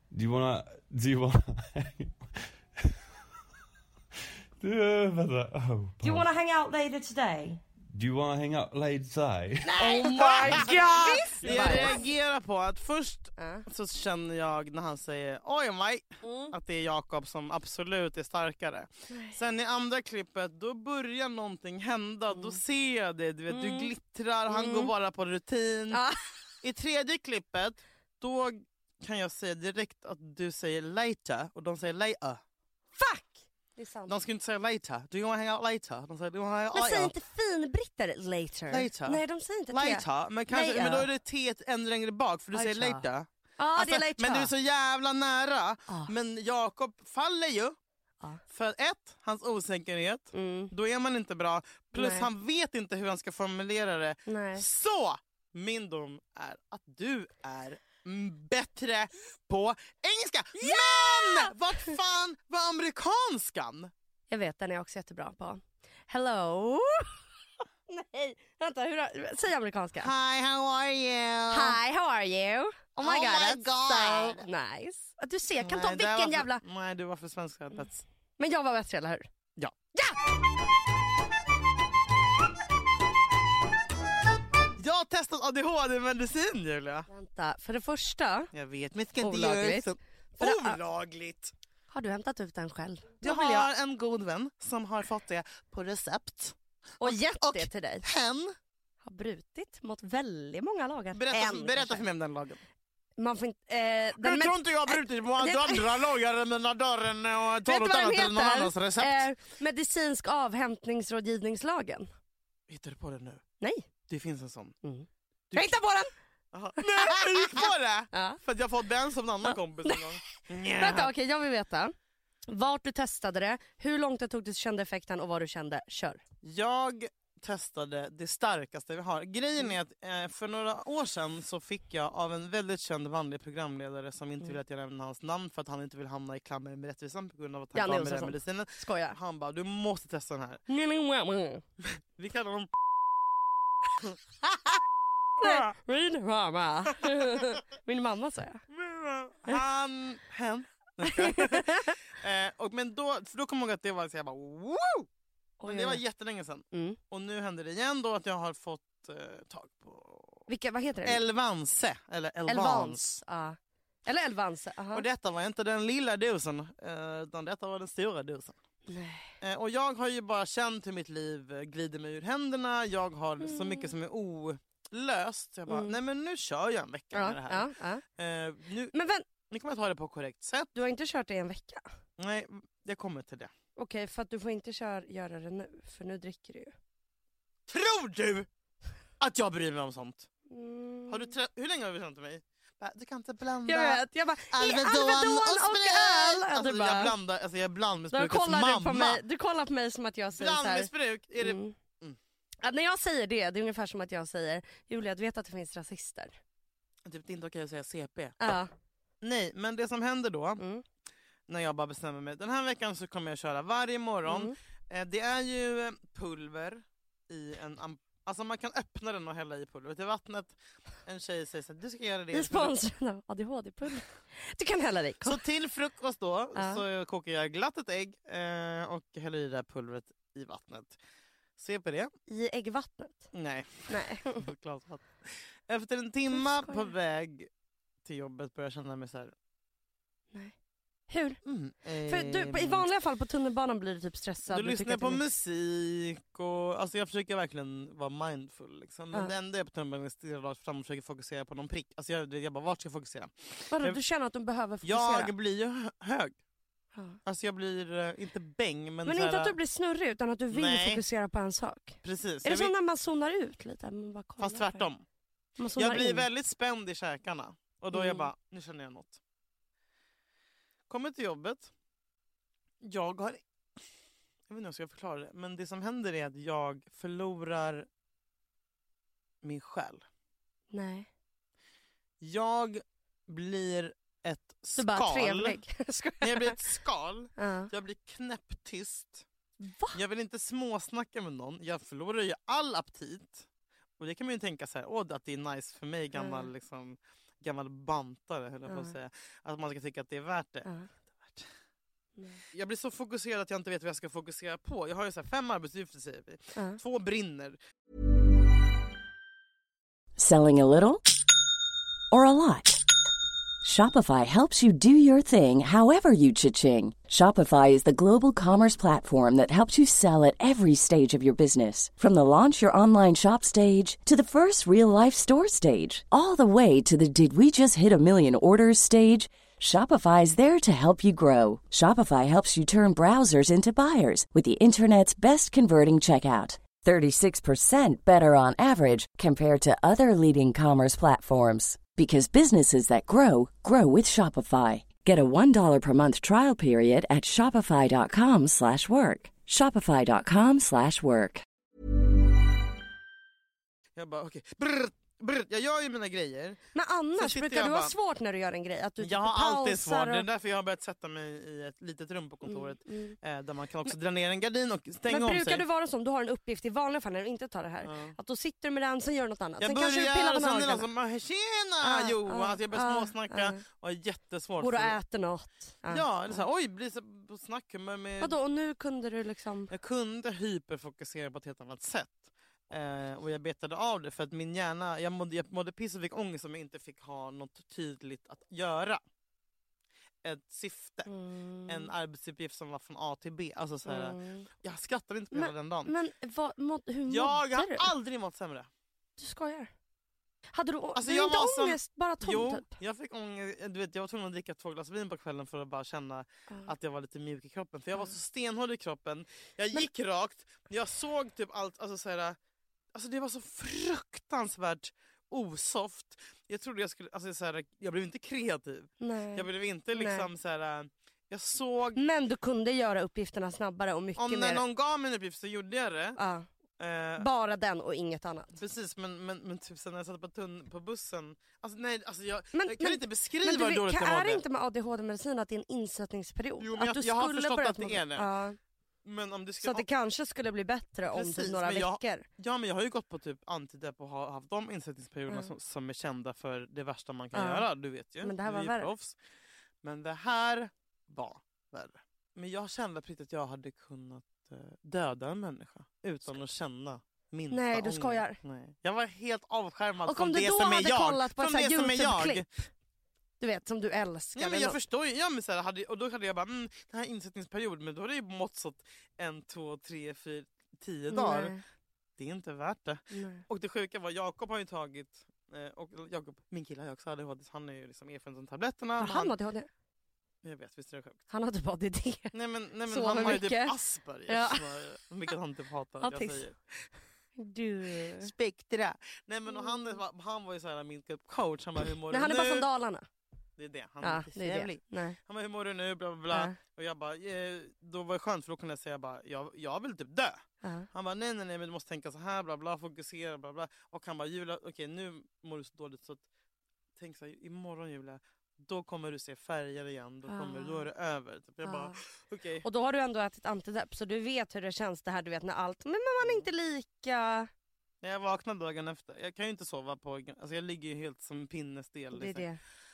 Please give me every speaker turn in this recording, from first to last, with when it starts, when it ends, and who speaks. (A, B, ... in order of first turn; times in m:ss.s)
0:00.1-0:02.2 A
0:04.6-0:06.3 A
0:06.0-0:07.6 B
0:07.9-0:09.8 A
0:09.8-0:12.0 C
0:09.8-0:11.3 B
0:09.8-0:26.0 D
0:11.4-0:12.0 A
0:13.4-0:13.6 C
0:16.2-0:16.5 C
0:19.1-0:19.4 C
0:22.3-0:22.6 C
0:23.5-0:23.9 C
0:24.5-0:24.9 C
0:25.9-0:26.2 C
0:26.6-0:32.4 D
0:33.0-0:34.2 C
0:34.1-0:37.1 D
0:36.7-0:41.1 C
0:38.7-0:47.8 D
0:42.5-0:43.0 C
0:43.6-0:44.5 C
0:48.5-1:03.9 D
0:50.3-0:50.7 C
0:52.0-0:52.3 C
0:54.3-0:54.6 C
1:00.6-1:01.9 C
1:04.3-1:07.2 C
1:07.9-1:10.1 C
1:10.0-1:11.8 D
1:11.5-1:16.6 C
1:13.0-1:14.5 D
1:15.6-1:18.0 D
1:18.4-1:19.3 C
1:24.8-1:27.1 D
1:27.1-1:28.5 C
1:28.5-1:31.5 D
1:29.2-1:30.8 C
1:31.9-1:33.7 C
1:33.2-1:38.6 D
1:37.0-1:38.1 C
1:39.0-1:42.1 C
1:41.1-1:42.6 D
1:43.2-1:46.0 C
1:44.2-1:49.3 D
1:47.6-1:52.1 C
1:52.7-1:53.4 D
1:53.6-1:53.9 C
1:54.1-1:54.8 D
1:54.8-1:56.1 C
1:56.5-2:01.1 D
1:56.8-1:58.4 C
1:59.5-2:00.1 C
2:00.8-2:01.9 C
2:02.5-2:06.2 C
2:06.4-2:20.6 D
2:17.8-2:19.2 C
2:20.7-2:21.6 C
2:22.0-2:22.7 D
2:25.4-2:25.7 D
2:25.4-2:28.6 C
2:28.7-2:35.1 D
2:31.1-2:32.0 C
2:35.6-2:36.0 C
2:35.7-2:40.5 D
2:36.7-2:37.0 C
2:40.5-2:41.2 C
2:41.0-2:43.2 D
2:42.5-2:45.1 C
2:44.9-2:48.6 D
2:48.9-2:49.3 C
2:49.4-2:59.0 D
2:53.4-2:53.9 C
2:55.7-2:56.0 C
2:57.1-2:58.0 C
2:58.9-2:59.2 C
2:59.5-3:00.7 D
3:00.8-3:01.8 C
3:02.2-3:03.5 D
3:03.8-3:06.7 C
3:07.7-3:08.5 D
3:09.2-3:10.3 D
3:10.5-3:11.3 C
3:11.1-3:19.2 D
3:13.7-3:17.1 C
3:18.1-3:21.8 C
3:20.4-3:22.2 D
3:22.6-3:26.4 C
3:27.0-3:28.6 D
3:28.4-3:28.7 C
3:29.2-3:30.6 D
3:30.6-3:30.8 C
3:31.5-3:42.7 D
3:34.3-3:34.5 C
3:42.3-3:45.4 C
3:45.2-3:51.0 D
3:46.6-3:46.8 C
3:51.6-3:52.1 D
3:52.3-3:53.3 C
3:53.3-3:57.5 D
3:53.9-3:54.4 C
3:56.3-3:56.9 C
3:58.0-3:59.3 D
4:01.1-4:01.4 C
4:01.4-4:02.9 D
4:02.1-4:05.2 C
4:04.5-4:14.0 D
4:13.7-4:15.3 C
4:14.8-4:16.4 D
4:17.3-4:19.6 D
4:19.1-4:24.9 C
4:20.5-4:21.0 D
4:22.0-4:22.7 D
4:24.4-4:25.0 D
4:25.6-4:26.2 C
4:25.8-4:29.2 D
4:27.9-4:28.3 C
4:30.9-4:31.7 D
4:32.8-4:33.4 D
4:34.5-4:37.9 D
4:39.4-4:40.0 D
4:40.7-4:41.1 C
4:42.2-4:45.6 D
4:44.8-4:46.6 C
4:46.2-4:49.3 D
4:47.4-4:47.7 C
4:49.6-4:50.0 C
4:49.9-4:53.5 D
4:54.0-5:01.5 D
4:56.2-4:56.5 C
4:58.7-4:58.9 C
5:02.2-5:02.4 C
5:02.5-5:07.6 D
5:10.2-5:11.0 E
5:12.1-5:12.8 E
5:13.6-5:51.4 E
5:54.0-5:56.6 D
5:56.7-6:00.3 C
5:57.2-5:57.9 D
5:59.0-6:05.6 D
6:02.5-6:03.2 C
6:05.1-6:10.9 C
6:07.8-6:08.2 D
6:09.6-6:15.0 D
6:11.8-6:13.6 C
6:14.6-6:16.4 C
6:15.9-6:18.4 D
6:18.2-6:19.7 C
6:19.7-6:29.0 D
6:30.2-6:31.1 D
6:31.1-6:31.9 C
6:31.7-6:35.9 D
6:33.9-6:34.5 C
6:35.3-6:37.9 C
6:37.1-6:38.7 D
6:39.2-6:39.7 C
6:40.5-6:42.7 C
6:41.0-6:52.4 D
6:52.9-7:02.0 D
6:59.0-7:00.3 C
7:02.0-7:04.6 C
7:04.2-7:06.2 D
7:06.2-7:06.5 C
7:06.8-7:07.3 D
7:07.2-7:08.6 C
7:08.5-7:14.4 D
7:12.5-7:18.6 C
7:16.6-7:18.3 D
7:19.0-7:19.9 D
7:19.6-7:22.2 C
7:21.1-7:29.2 D
7:27.3-7:27.7 C
7:28.2-7:28.9 C
7:29.8-7:42.5 D
7:37.5-7:38.4 C
7:40.1-7:42.4 C
7:43.4-7:44.8 C
7:44.4-7:51.5 D
7:51.1-7:51.6 C
7:52.2-7:59.4 D
7:53.1-7:53.4 C
7:59.0-7:59.7 C
8:00.4-8:01.2 D
8:01.3-8:02.3 C
8:02.3-8:06.9 D
8:02.9-8:03.7 C
8:04.3-8:04.7 C
8:06.0-8:06.4 C
8:07.4-8:08.3 C
8:08.2-8:12.7 D
8:09.5-8:10.0 C
8:12.1-8:13.1 C
8:13.6-8:26.2 D
8:14.0-8:15.2 C
8:16.3-8:16.6 C
8:20.6-8:20.9 C
8:27.0-8:32.7 D
8:30.3-8:30.9 C
8:31.6-8:32.0 C
8:32.6-8:37.5 C
8:36.2-8:36.5 D
8:38.0-8:42.4 D
8:42.1-8:42.6 C